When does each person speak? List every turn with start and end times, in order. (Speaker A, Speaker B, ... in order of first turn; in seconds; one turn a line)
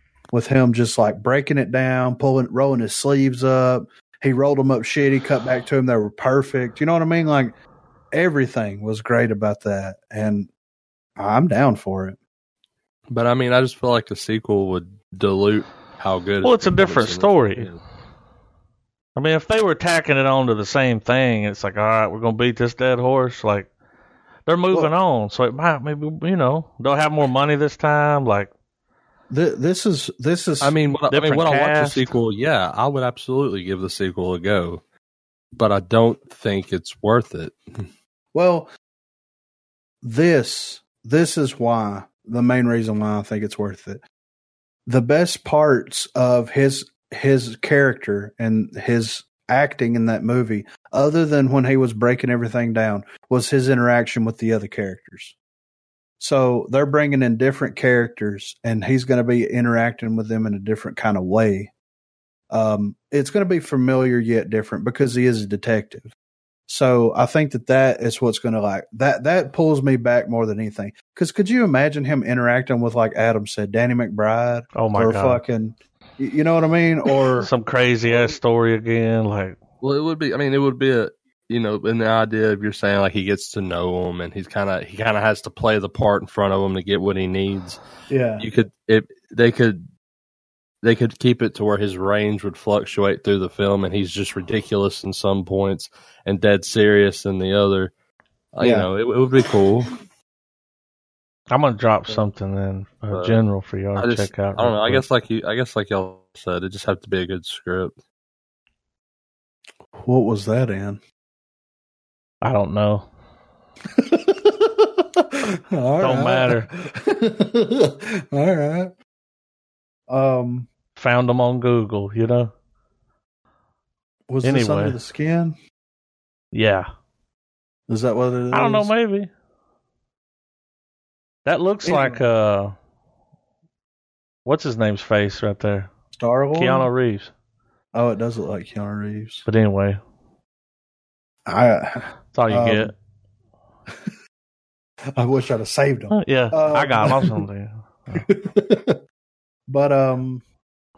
Speaker A: 0.3-7.6
Speaker A: 8.1-10.5
Speaker A: 11.2-12.2
Speaker B: 13.1-17.8
Speaker C: 16.4-17.7
Speaker C: 19.2-23.7
Speaker C: 24.5-28.5
Speaker A: 29.3-30.8
Speaker B: 30.6-34.8
Speaker C: 31.1-32.1
Speaker B: 35.5-37.8
Speaker A: 38.3-38.7
Speaker A: 40.0-44.0
Speaker A: 44.9-55.4
Speaker A: 56.2-61.7
Speaker A: 62.5-66.1
Speaker A: 66.7-77.5
Speaker C: 74.8-75.4
Speaker C: 77.4-79.6
Speaker B: 79.8-87.8
Speaker A: 88.1-88.5
Speaker B: 88.4-89.8
Speaker B: 90.8-97.9
Speaker B: 98.5-99.9
Speaker A: 98.6-98.9
Speaker C: 101.5-105.0
Speaker B: 103.1-103.4
Speaker B: 104.0-108.0
Speaker A: 110.0-111.0
Speaker C: 112.4-113.1
Speaker A: 114.0-118.9
Speaker C: 116.0-116.7
Speaker A: 120.1-120.7
Speaker C: 121.0-122.5
Speaker A: 124.3-125.6
Speaker C: 124.4-125.0
Speaker C: 126.5-126.9
Speaker A: 127.9-128.9
Speaker C: 128.5-129.3
Speaker C: 131.4-132.8
Speaker A: 131.8-132.2
Speaker C: 134.4-135.9
Speaker A: 136.1-136.9
Speaker C: 136.5-137.3
Speaker A: 137.9-139.5
Speaker C: 139.5-140.0
Speaker A: 141.5-142.9
Speaker C: 142.3-142.9
Speaker A: 145.2-147.4
Speaker C: 146.1-148.2
Speaker A: 148.1-149.0
Speaker A: 149.7-150.4